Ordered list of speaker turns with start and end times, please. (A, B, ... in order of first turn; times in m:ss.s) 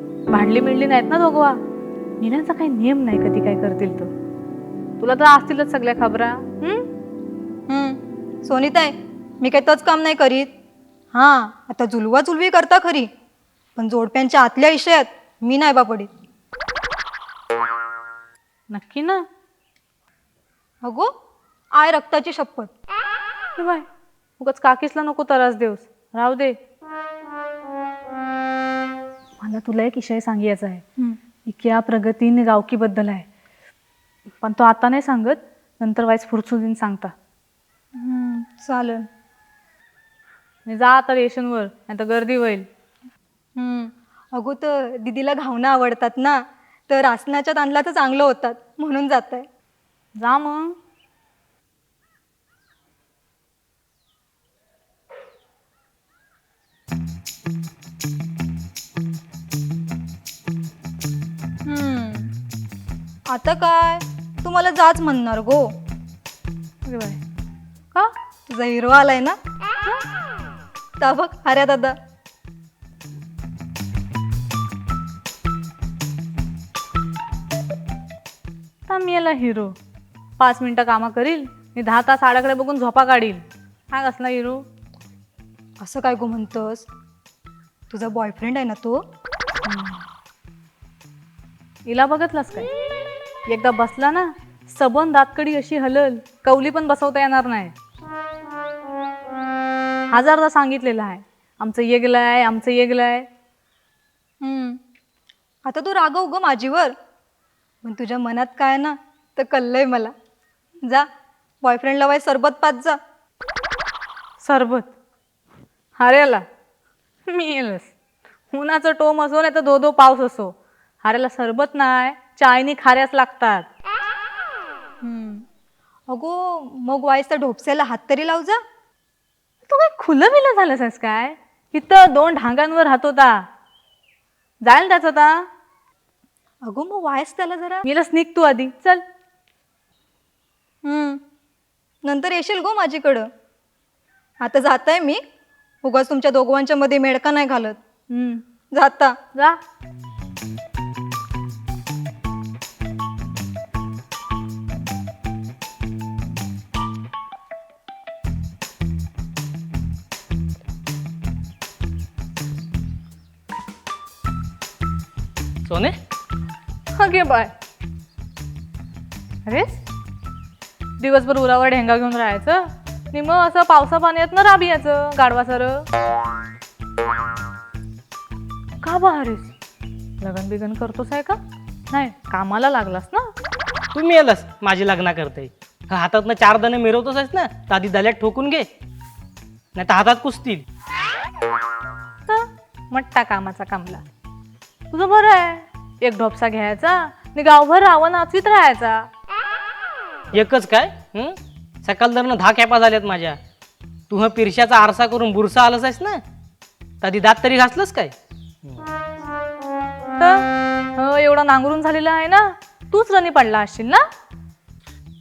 0:00.3-0:01.6 A
0:02.2-0:04.1 A
0:05.0-0:06.9 A
0:07.7-0:10.5 B
0:11.1-0:13.1 B
0:13.8-0:16.1 B
0:18.7-0:19.2 A
0:20.8-0:21.1 B
0:21.8-0:22.7 B
0:23.6-0:23.8 A
0:24.4-0:26.6 A
0:29.4-0:30.8 A
0:31.5-0:33.3 A
0:34.4-0:37.1 A
0:38.0-0:39.0 B
0:40.7-0:42.7 A
0:43.6-0:49.5 B
0:50.2-0:50.8 A
1:01.6-1:02.3 B
1:03.3-1:05.7 B
1:06.8-1:07.2 A
1:08.5-1:09.4 B
1:11.0-1:12.0 B
1:18.9-1:19.8 A
1:20.4-1:24.6 A
1:25.8-1:26.9 B
1:27.9-1:29.0 B
1:29.6-1:30.0 A
1:31.9-1:32.7 A
1:33.5-1:37.7 A
1:40.1-1:43.3 A
1:44.4-1:44.8 B
1:45.7-1:46.9 B
1:47.8-1:50.1 B
1:51.6-1:53.0 B
1:54.4-1:54.9 A
1:56.0-1:56.4 A
1:57.3-1:57.9 A
1:58.5-2:03.7 A
2:05.0-2:05.4 B
2:06.1-2:08.6 B
2:09.7-2:13.4 A
2:14.6-2:15.5 A
2:16.6-2:17.8 B
2:17.8-2:19.0 A
2:20.8-2:21.2 B
2:22.0-2:23.3 B
2:24.4-2:25.2 B
2:25.8-2:27.8 B
2:28.1-2:28.4 A
2:28.8-2:29.2 B
2:45.6-2:46.0 C
2:46.9-2:47.5 A
2:49.4-2:49.8 A
2:51.0-2:55.9 A
2:58.8-2:59.5 A
3:00.2-3:01.4 A
3:01.9-3:03.3 A
3:03.9-3:08.7 C
3:09.8-3:10.6 C
3:12.3-3:14.0 A
3:14.9-3:19.1 A
3:20.3-3:23.4 C
3:24.1-3:26.2 C
3:27.0-3:28.8 C
3:30.2-3:34.0 A